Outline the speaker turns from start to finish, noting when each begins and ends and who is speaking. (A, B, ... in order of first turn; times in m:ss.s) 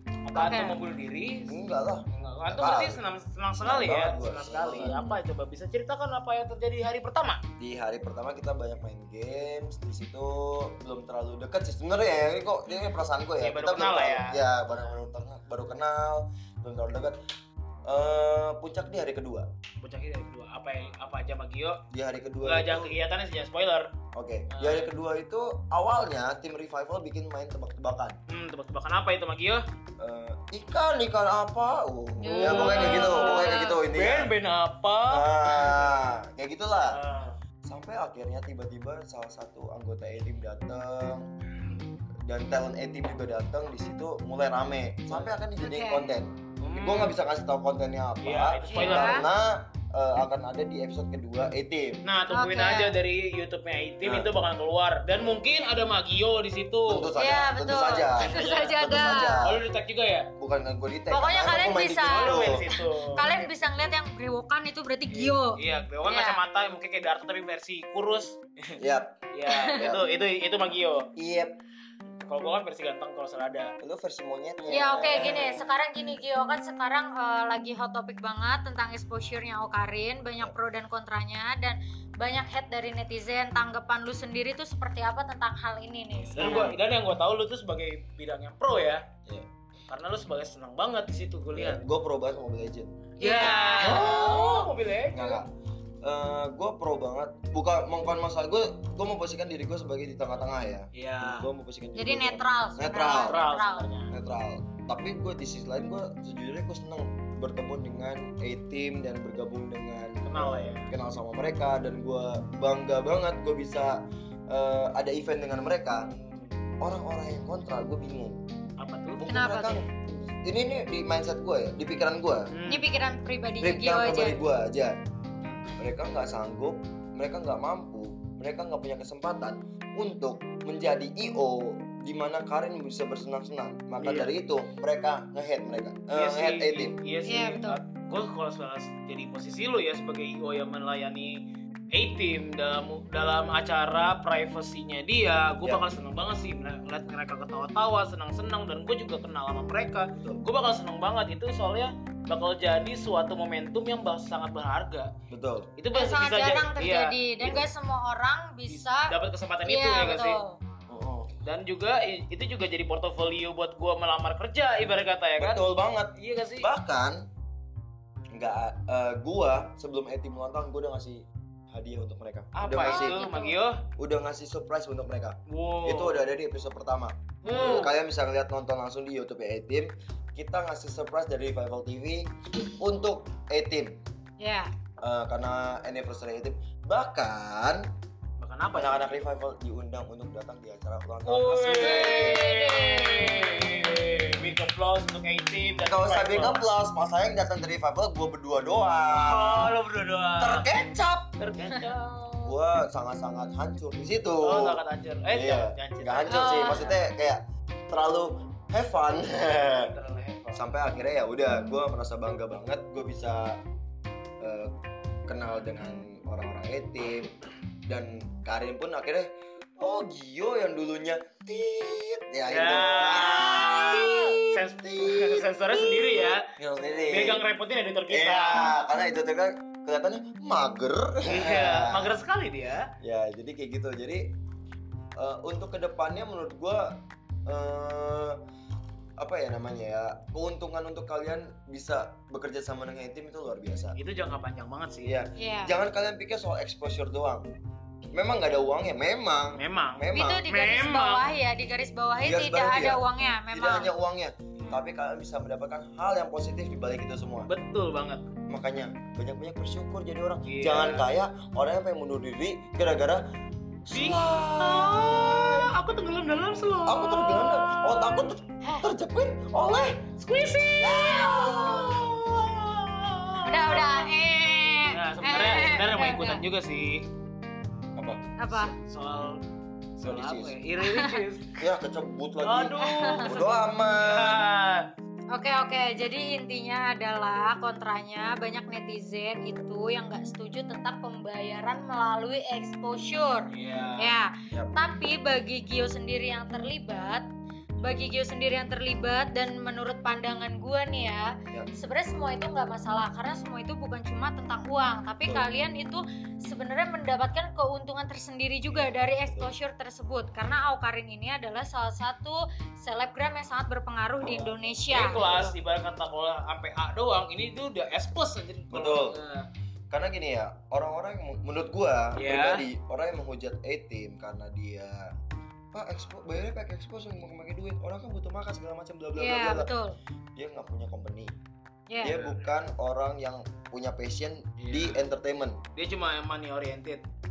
0:00.3-0:01.6 A
0:00.3-0:00.7 B
0:01.5-0:03.0 C
0:02.1-0:07.4 A
0:03.6-0:05.0 C
0:04.7-0:05.2 B
0:07.6-0:17.2 C
0:13.4-0:14.4 A
0:17.8-0:19.5 C
0:19.8-0:21.8 A
0:21.9-0:23.0 C
0:22.4-0:23.9 A
0:24.1-0:28.2 C
0:24.5-0:24.9 A
0:28.3-0:29.6 A
0:30.0-0:34.3 C
0:32.2-0:33.7 B
0:32.3-0:36.0 A
0:35.1-0:37.0 C
0:36.9-0:37.4 A
0:37.6-0:41.3 C
0:42.3-0:52.0 C
0:45.6-0:46.1 B
0:46.6-0:47.1 A
0:48.2-0:49.2 A
0:48.7-0:49.2 B
0:52.0-0:57.1 A
0:52.3-0:52.9 B
0:54.0-0:54.3 C
0:56.9-0:59.6 C
0:57.2-0:59.4 B
0:58.2-0:58.9 A
0:59.4-1:00.3 A
1:00.4-1:02.7 C
1:01.1-1:06.4 B
1:02.0-1:03.4 A
1:05.1-1:08.8 A
1:08.8-1:09.2 C
1:09.3-1:11.1 A
1:09.5-1:09.8 B
1:09.7-1:10.0 C
1:11.2-1:11.6 C
1:12.2-1:13.7 A
1:13.8-1:15.7 C
1:14.7-1:26.7 B
1:15.0-1:15.4 A
1:26.3-1:26.8 C
1:26.3-1:29.0 A
1:29.9-1:31.8 A
1:31.5-1:35.5 C
1:33.2-1:34.6 B
1:33.2-1:35.4 A
1:36.0-1:43.4 C
1:40.9-1:41.5 A
1:41.9-1:43.9 B
1:43.2-1:44.1 A
1:44.1-1:56.1 C
1:50.2-1:50.9 A
1:56.1-1:56.5 A
1:56.8-1:58.4 C
1:58.8-1:59.2 A
1:59.2-2:02.5 C
1:59.3-1:59.8 B
2:02.5-2:02.9 A
2:02.7-2:04.4 B
2:03.6-2:05.0 C
2:05.8-2:17.0 C
2:14.0-2:14.3 A
2:16.1-2:35.1 A
2:17.2-2:17.8 B
2:35.3-2:35.7 C
2:35.8-2:37.7 A
2:35.9-2:40.6 B
2:38.7-2:40.4 A
2:40.9-2:41.3 C
2:41.4-2:46.7 A
2:45.4-2:47.2 C
2:48.3-2:53.2 C
2:52.5-2:53.8 A
2:52.8-2:53.6 B
2:54.0-3:02.3 C
2:55.5-2:56.3 A
2:57.4-2:57.9 A
3:02.8-3:04.0 C
3:04.4-3:04.7 B
3:05.0-3:07.8 C
3:08.4-3:09.2 A
3:08.7-3:12.6 C
3:11.2-3:16.6 A
3:11.8-3:14.0 B
3:15.8-3:19.8 C
3:19.1-3:20.7 A
3:20.4-3:21.3 C
3:21.4-3:22.6 A
3:22.4-3:29.9 C
3:24.4-3:26.9 A
3:26.3-3:27.0 B
3:29.6-3:30.6 A
3:30.5-3:33.6 C
3:34.4-3:34.7 C
3:35.3-3:37.3 C
3:37.9-3:47.4 C
3:42.5-3:46.4 A
3:47.1-3:48.7 A
3:48.1-3:52.1 C
3:51.2-3:52.8 A
3:53.0-3:54.2 C
3:55.2-3:56.9 C
3:57.5-3:58.4 C
3:59.2-4:04.0 C
4:04.0-4:05.2 A
4:05.0-4:07.5 C
4:05.4-4:05.7 B
4:08.1-4:10.5 C
4:09.6-4:11.3 A
4:10.1-4:13.9 B
4:12.2-4:17.5 C
4:17.5-4:18.3 A
4:18.5-4:23.2 C
4:20.4-4:21.1 A
4:23.8-4:25.7 C
4:23.9-4:28.3 A
4:26.8-4:30.0 C
4:28.6-4:28.9 B
4:30.2-4:34.1 A
4:30.8-4:32.0 C
4:31.4-4:31.8 B
4:33.4-4:36.4 B
4:34.9-4:37.0 A
4:38.0-4:38.2 C
4:38.4-4:38.7 B
4:38.5-4:39.4 A
4:40.0-4:41.6 A
4:40.0-4:40.6 C
4:40.8-4:41.2 B
4:41.6-4:44.4 C
4:42.4-4:44.8 A
4:42.8-4:43.3 B
4:45.3-4:57.2 B
4:53.5-4:54.2 A
4:54.5-4:54.8 C
4:57.8-5:15.3 B
5:09.0-5:09.5 C
5:14.2-5:19.4 A
5:14.9-5:15.5 C
5:18.7-5:19.2 C
5:19.9-5:25.1 C
5:22.2-5:22.6 A
5:25.7-5:29.7 C
5:29.1-5:30.0 B
5:30.4-5:31.4 C
5:31.9-5:32.1 B
5:32.0-5:35.6 C
5:32.0-5:32.4 A
5:34.6-5:35.0 A
5:35.7-5:37.0 A